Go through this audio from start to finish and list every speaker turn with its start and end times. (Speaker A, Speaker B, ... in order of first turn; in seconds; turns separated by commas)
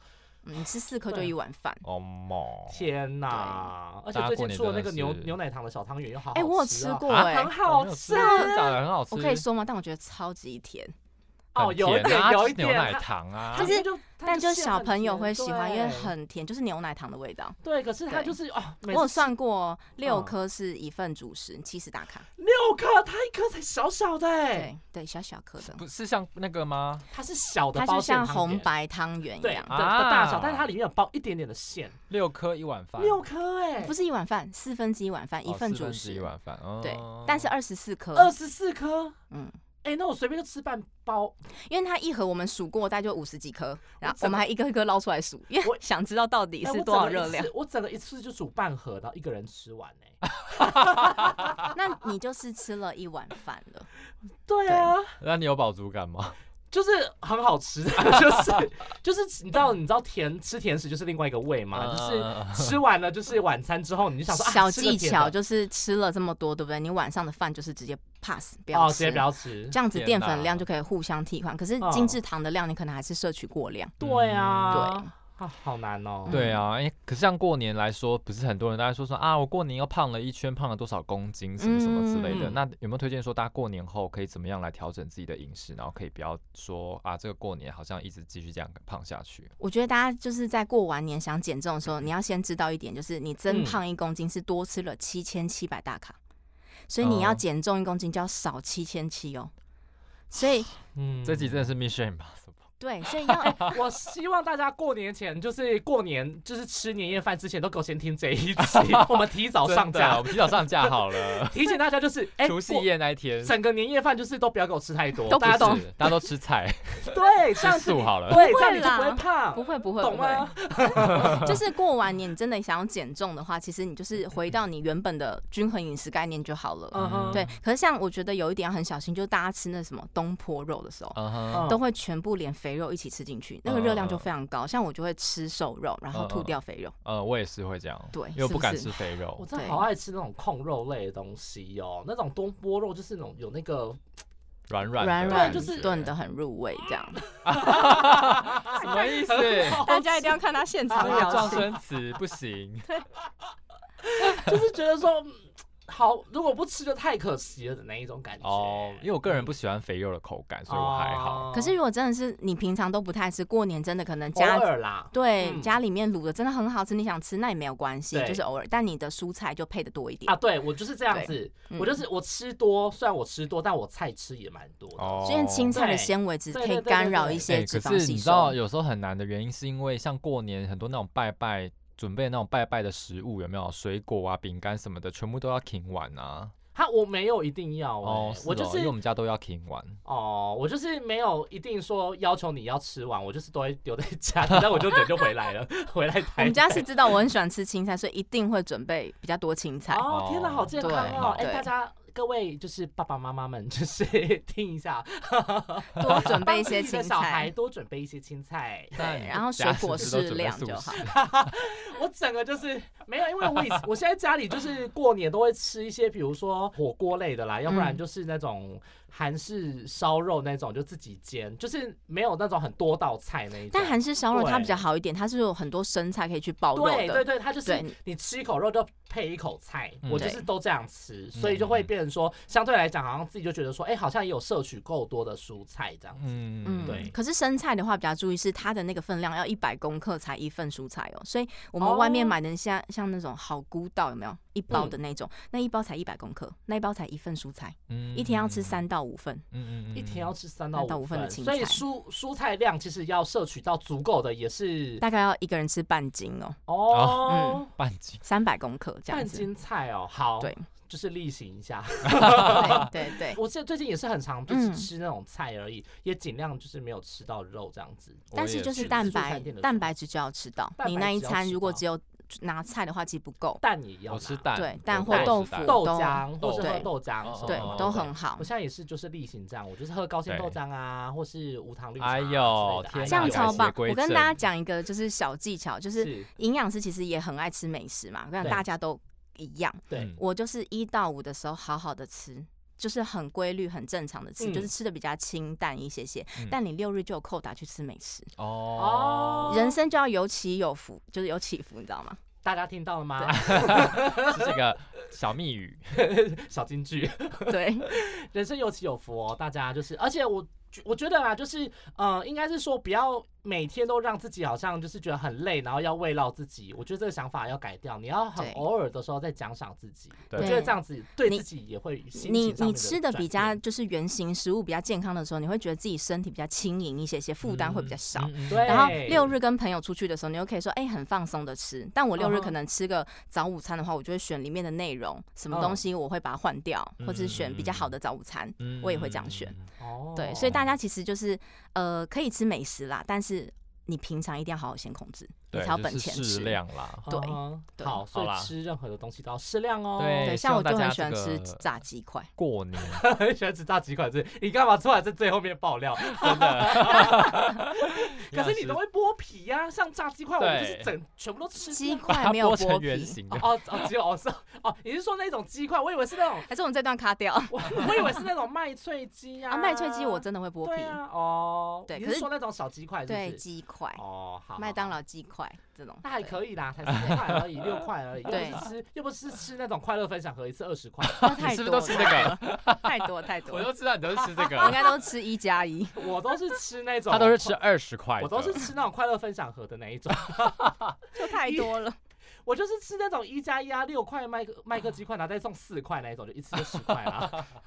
Speaker A: 0.4-1.8, Speaker B: 1.8-2.9, Speaker C: 2.7-8.8, Speaker A: 3.3-3.7, Speaker B: 4.1-5.3, Speaker A: 6.3-7.5, Speaker B: 7.0-9.4, Speaker A: 8.1-8.5, Speaker A: 9.1-10.9, Speaker C: 11.5-16.1, Speaker B: 11.6-13.7, Speaker A: 13.5-17.6, Speaker C: 17.6-19.3, Speaker A: 18.1-18.4, Speaker A: 18.9-22.3, Speaker C: 20.0-20.3, Speaker C: 22.4-24.7, Speaker A: 24.5-25.8, Speaker B: 25.6-27.1, Speaker C: 27.1-28.7, Speaker A: 27.7-29.7, Speaker C: 29.4-32.0, Speaker B: 29.7-30.7, Speaker B: 32.1-33.2, Speaker C: 33.0-33.9, Speaker A: 33.8-38.3, Speaker B: 35.5-37.5, Speaker C: 38.1-39.1, Speaker C: 39.8-41.4, Speaker A: 41.6-47.5, Speaker C: 44.0-44.4, Speaker C: 46.6-51.7, Speaker B: 51.0-51.5, Speaker A: 51.7-53.9, Speaker C: 54.5-55.1, Speaker A: 54.7-54.9, Speaker B: 55.2-56.4, Speaker C: 56.7-65.3, Speaker B: 61.7-62.8, Speaker A: 64.3-73.9, Speaker C: 68.7-69.7, Speaker B: 69.9-70.7, Speaker C: 71.8-72.2, Speaker C: 74.0-76.4, Speaker B: 74.0-74.8, Speaker A: 74.7-75.1, Speaker A: 76.3-76.6, Speaker B: 76.3-89.5, Speaker A: 81.6-82.5, Speaker A: 89.6-96.2, Speaker C: 93.5-93.8, Speaker A: 96.9-99.5, Speaker B: 97.0-97.4, Speaker A: 100.3-100.7, Speaker C: 100.9-101.7, Speaker B: 101.2-102.6, Speaker A: 102.8-103.8, Speaker B: 103.3-103.7, Speaker C: 103.5-112.9, Speaker B: 108.6-111.7, Speaker B: 112.4-113.5, Speaker C: 113.4-115.9, Speaker A: 115.3-115.9, Speaker B: 115.3-118.4, Speaker C: 117.0-121.5, Speaker A: 118.3-136.9, Speaker B: 121.1-121.5, Speaker C: 126.9-127.4, Speaker B: 127.0-127.5, Speaker B: 131.1-131.7, Speaker C: 131.5-131.8, Speaker B: 133.6-134.3, Speaker B: 136.1-139.4, Speaker A: 138.1-138.9, Speaker C: 139.4-144.0, Speaker A: 139.5-139.8, Speaker B: 144.7-146.1, Speaker A: 145.0-147.9, Speaker C: 145.3-145.9, Speaker C: 147.2-151.8, Speaker B: 147.4-149.9, Speaker A: 148.7-151.7, Speaker B: 150.9-152.9, Speaker C: 154.0-159.5, Speaker B: 154.2-154.6, Speaker B: 158.4-161.5, Speaker C: 160.7-161.8, Speaker A: 161.5-170.4, Speaker C: 164.3-165.8, Speaker C: 168.1-168.4, Speaker C: 170.3-177.5, Speaker A: 171.1-172.0, Speaker B: 175.0-175.8, Speaker A: 175.2-178.6, Speaker B: 177.5-186.5, Speaker C: 186.7-188.9, Speaker B: 188.0-190.0, Speaker C: 190.0-197.0, Speaker A: 196.4-200.1, Speaker C: 199.9-209.1, Speaker B: 200.1-201.4, Speaker A: 200.8-201.7, Speaker A: 206.0-207.5, Speaker A: 209.0-211.0, Speaker B: 209.0-211.2, Speaker C: 211.0-224.8, Speaker A: 217.7-218.0, Speaker A: 223.7-227.9, Speaker C: 226.7-236.2, Speaker B: 230.0-230.3, Speaker A: 230.2-230.5, Speaker B: 231.3-231.9, Speaker B: 236.2-237.1, Speaker A: 236.6-249.4, Speaker C: 236.8-237.1, Speaker C: 241.8-242.4, Speaker C: 244.7-245.0, Speaker B: 247.9-248.8, Speaker B: 249.5-250.3, Speaker C: 249.9-255.0, Speaker A: 250.7-251.8, Speaker A: 255.0-256.6, Speaker C: 256.7-257.7, Speaker B: 256.9-258.2, Speaker A: 257.2-257.6, Speaker A: 258.2-259.5, Speaker C: 259.1-269.9, Speaker A: 260.4-260.6, Speaker B: 262.2-262.7, Speaker A: 262.3-263.4, Speaker A: 264.5-264.9, Speaker B: 268.3-269.2, Speaker A: 268.3-273.6, Speaker C: 270.8-271.8, Speaker C: 273.6-283.7, Speaker B: 274.1-278.1, Speaker A: 274.5-276.9, Speaker A: 277.4-278.5, Speaker B: 280.3-280.6, Speaker B: 282.0-284.4, Speaker A: 283.1-298.3, Speaker C: 286.0-286.3, Speaker C: 289.9-290.1, Speaker C: 294.4-294.7, Speaker B: 298.4-299.6, Speaker C: 298.8-299.8, Speaker A: 299.5-302.2, Speaker C: 302.4-304.6, Speaker B: 303.3-306.0, Speaker C: 305.9-323.6, Speaker A: 307.5-307.9, Speaker A: 318.4-318.6, Speaker B: 320.3-320.6, Speaker A: 320.4-321.4, Speaker A: 322.2-339.5, Speaker B: 327.4-329.2, Speaker C: 328.5-329.3, Speaker C: 332.1-332.5, Speaker C: 335.5-335.8, Speaker B: 337.0-337.9, Speaker B: 338.6-339.7, Speaker C: 339.8-340.6, Speaker A: 340.1-348.0, Speaker B: 345.5-347.1, Speaker C: 347.1-350.4, Speaker B: 348.1-348.5, Speaker B: 350.0-351.6, Speaker A: 350.2-352.3, Speaker B: 352.4-353.0, Speaker C: 352.8-362.1, Speaker B: 356.0-358.8, Speaker B: 360.4-360.9, Speaker A: 361.6-363.2, Speaker B: 362.1-363.9, Speaker C: 363.3-366.5, Speaker A: 366.4-368.2, Speaker C: 367.5-373.4, Speaker A: 369.5-371.0, Speaker A: 371.9-372.3, Speaker A: 373.1-374.0, Speaker C: 374.0-374.9, Speaker A: 374.6-376.4, Speaker C: 376.0-381.4, Speaker B: 376.9-377.4, Speaker A: 378.3-378.6, Speaker B: 381.0-385.0, Speaker A: 381.2-386.1, Speaker C: 385.9-387.6, Speaker B: 387.1-388.6, Speaker C: 388.2-391.8, Speaker A: 391.1-392.0, Speaker C: 392.4-397.5